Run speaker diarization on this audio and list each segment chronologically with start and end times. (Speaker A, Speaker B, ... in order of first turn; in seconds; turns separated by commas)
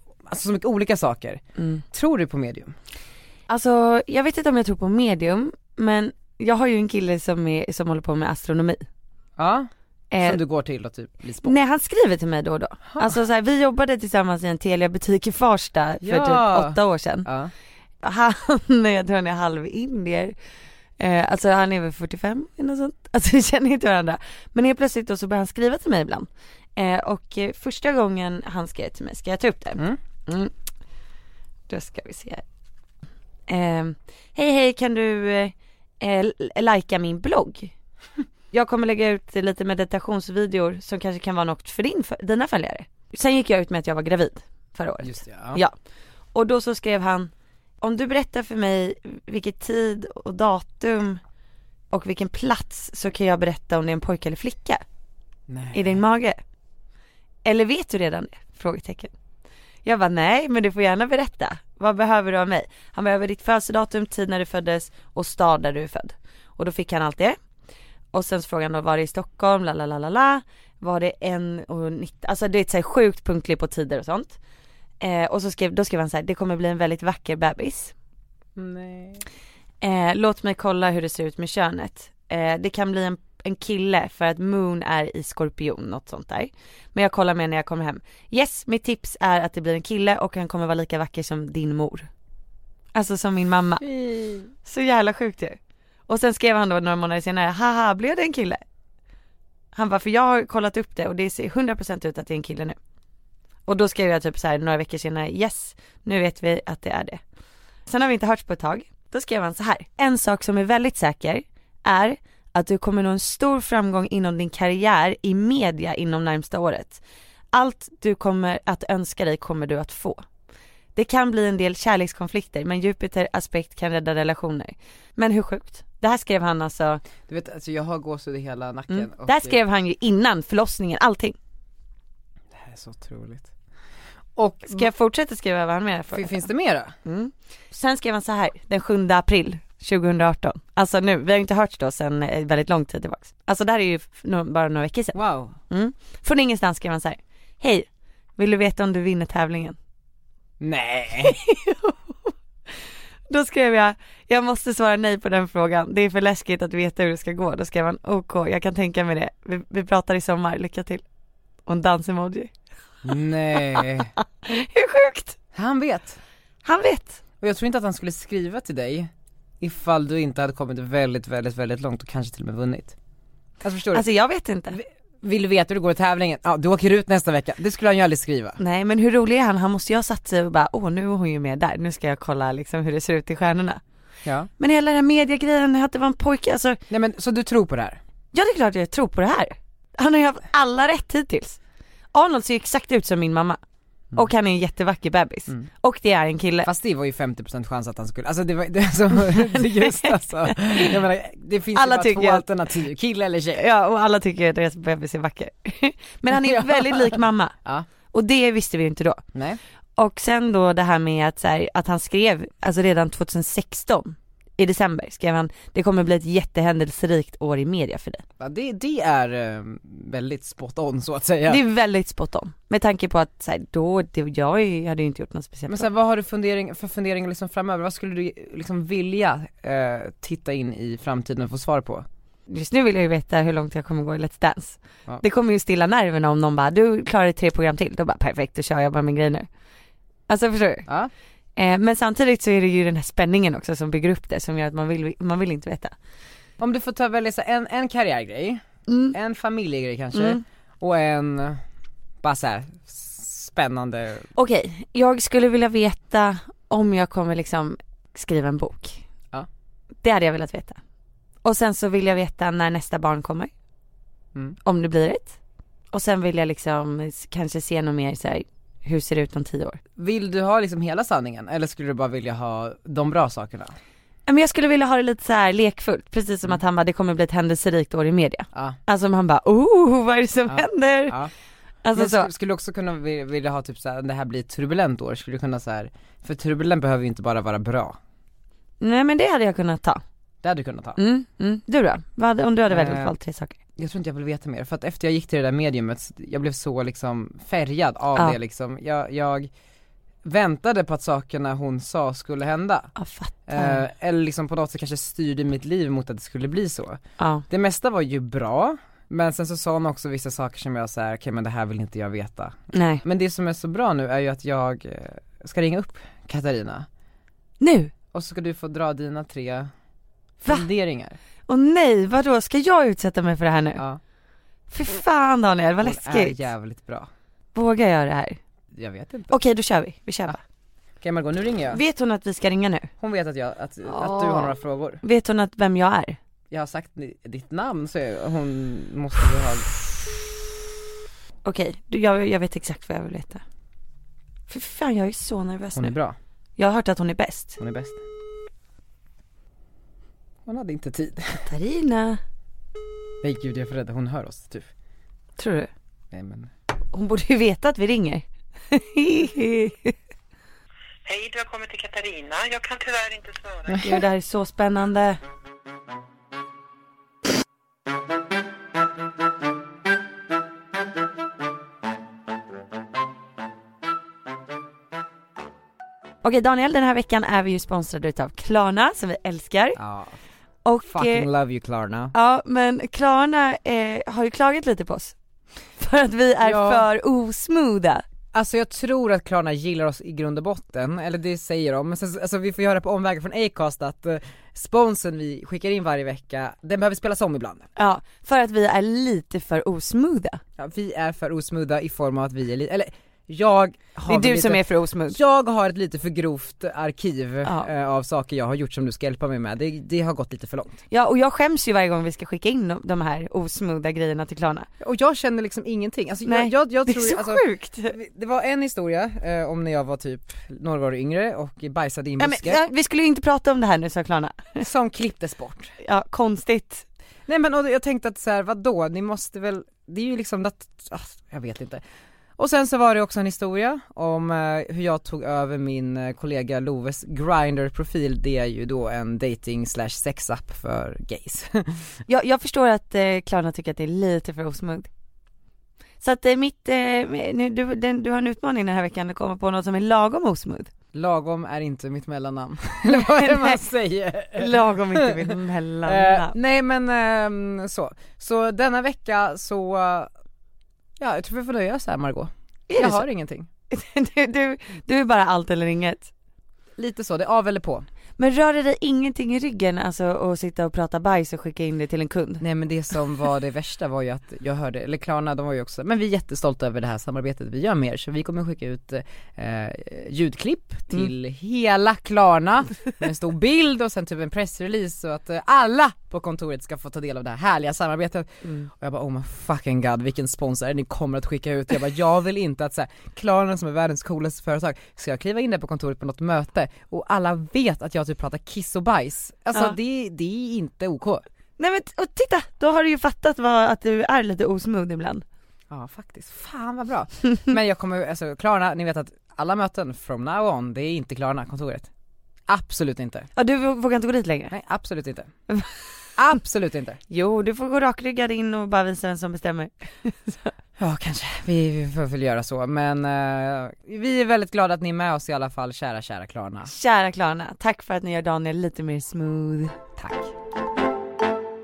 Speaker A: 0.2-2.7, Speaker B: 1.6-1.8, Speaker B: 3.5-8.8, Speaker A: 9.4-9.7, Speaker B: 10.1-10.4, Speaker A: 10.2-11.6, Speaker B: 11.4-17.3, Speaker A: 16.0-17.5, Speaker B: 18.0-20.3, Speaker B: 21.0-30.5, Speaker B: 31.7-32.4, Speaker B: 33.5-37.7, Speaker B: 38.5-45.7, Speaker A: 45.0-45.6, Speaker B: 46.3-51.2, Speaker B: 51.9-54.8, Speaker A: 55.5-56.0, Speaker B: 55.7-56.4, Speaker B: 57.4-59.1, Speaker B: 59.8-67.4, Speaker B: 68.1-74.4, Speaker B: 75.0-77.9, Speaker A: 78.6-79.2, Speaker B: 79.8-92.1, Speaker B: 92.9-93.8, Speaker A: 93.8-94.5, Speaker B: 94.6-98.6, Speaker B: 99.7-102.8, Speaker B: 103.7-107.2, Speaker B: 107.8-117.0, Speaker B: 117.5-120.2, Speaker B: 121.0-127.0, Speaker A: 127.3-129.6, Speaker B: 128.9-131.3, Speaker A: 132.5-133.5, Speaker A: 134.3-134.9, Speaker B: 134.7-136.5, Speaker A: 136.1-136.9, Speaker B: 137.0-145.2, Speaker A: 145.1-145.6, Speaker B: 145.7-149.8, Speaker A: 150.6-151.4, Speaker B: 151.2-152.3, Speaker B: 153.3-161.0, Speaker B: 161.7-162.5, Speaker A: 163.0-164.1, Speaker B: 163.6-165.4, Speaker A: 165.5-166.2, Speaker B: 166.6-167.2, Speaker A: 167.4-172.9, Speaker A: 173.6-174.1, Speaker B: 173.9-174.8, Speaker A: 174.7-178.6, Speaker B: 178.6-183.8, Speaker B: 184.6-186.8, Speaker A: 186.9-188.0, Speaker B: 188.3-191.6, Speaker B: 192.1-193.6, Speaker B: 194.1-196.7, Speaker A: 196.6-203.6, Speaker B: 199.2-200.9, Speaker B: 201.7-202.5, Speaker B: 203.5-207.5, Speaker A: 206.3-207.8, Speaker B: 208.1-209.2, Speaker A: 209.3-209.6, Speaker B: 210.0-218.2, Speaker A: 218.4-221.6, Speaker B: 221.5-225.9, Speaker A: 225.7-232.1, Speaker B: 232.5-239.5, Speaker B: 240.3-240.9, Speaker B: 241.6-245.9, Speaker A: 246.6-251.6, Speaker B: 248.9-249.2, Speaker B: 250.1-250.4, Speaker A: 252.2-254.2, Speaker B: 254.3-259.0, Speaker B: 260.0-260.8, Speaker B: 261.4-263.5, Speaker B: 264.6-265.4, Speaker B: 265.9-269.8, Speaker A: 269.9-273.8, Speaker B: 274.3-281.2, Speaker A: 278.5-278.8, Speaker A: 280.5-281.3, Speaker B: 281.8-282.3, Speaker A: 281.9-288.0, Speaker B: 288.8-290.0, Speaker A: 290.4-291.0, Speaker B: 291.0-293.6, Speaker A: 292.7-293.1, Speaker A: 293.8-299.5, Speaker A: 300.2-302.9, Speaker B: 302.9-303.8, Speaker A: 303.5-316.9, Speaker B: 307.2-307.4, Speaker B: 312.7-313.0, Speaker B: 317.6-317.9, Speaker A: 318.1-319.7, Speaker A: 320.5-321.2, Speaker B: 321.5-323.8, Speaker B: 324.7-326.4, Speaker A: 325.8-327.1, Speaker B: 327.5-328.4, Speaker A: 328.7-329.3, Speaker B: 329.3-330.4, Speaker A: 331.0-331.8, Speaker B: 331.7-332.9, Speaker A: 333.0-335.0, Speaker B: 333.8-336.2, Speaker A: 336.5-339.9, Speaker B: 341.4-343.4, Speaker B: 344.5-345.9, Speaker A: 345.7-346.1, Speaker B: 346.6-347.6, Speaker A: 347.6-348.0, Speaker A: 350.4-351.5, Speaker B: 351.5-352.2, Speaker A: 353.2-354.7, Speaker B: 355.4-355.7, Speaker A: 356.1-356.5, Speaker B: 356.9-359.9, Speaker C: 361.1-363.8, Speaker A: 363.7-364.0, Speaker B: 363.8-365.2, Speaker B: 376.2-379.8, Speaker A: 379.8-380.2, Speaker B: 380.6-381.3, Speaker A: 380.9-382.1, Speaker B: 382.1-385.1, Speaker B: 385.8-388.0, Speaker A: 386.4-386.9, Speaker A: 388.3-397.7, Speaker B: 397.8-400.4, Speaker A: 400.6-410.8, Speaker B: 404.0-405.2, Speaker B: 407.4-407.7, Speaker B: 410.9-414.7, Speaker A: 414.8-422.6, Speaker B: 416.2-417.9, Speaker B: 422.2-424.6, Speaker A: 424.6-425.7, Speaker B: 425.8-426.9, Speaker A: 427.3-431.8, Speaker A: 432.4-441.8, Speaker B: 442.1-444.9, Speaker B: 446.0-450.7, Speaker A: 450.9-455.3, Speaker B: 452.9-453.6, Speaker B: 454.4-456.4, Speaker A: 455.8-460.1, Speaker A: 461.0-463.5, Speaker B: 462.7-463.0, Speaker B: 463.7-466.1, Speaker A: 466.8-467.9, Speaker B: 468.2-472.4, Speaker A: 472.4-501.2, Speaker B: 501.6-505.2, Speaker A: 505.7-511.9, Speaker A: 512.5-513.3, Speaker B: 513.4-514.5, Speaker A: 514.5-515.3, Speaker A: 516.2-517.0, Speaker B: 517.1-520.5, Speaker A: 520.8-526.7, Speaker B: 526.7-529.8, Speaker A: 530.0-530.3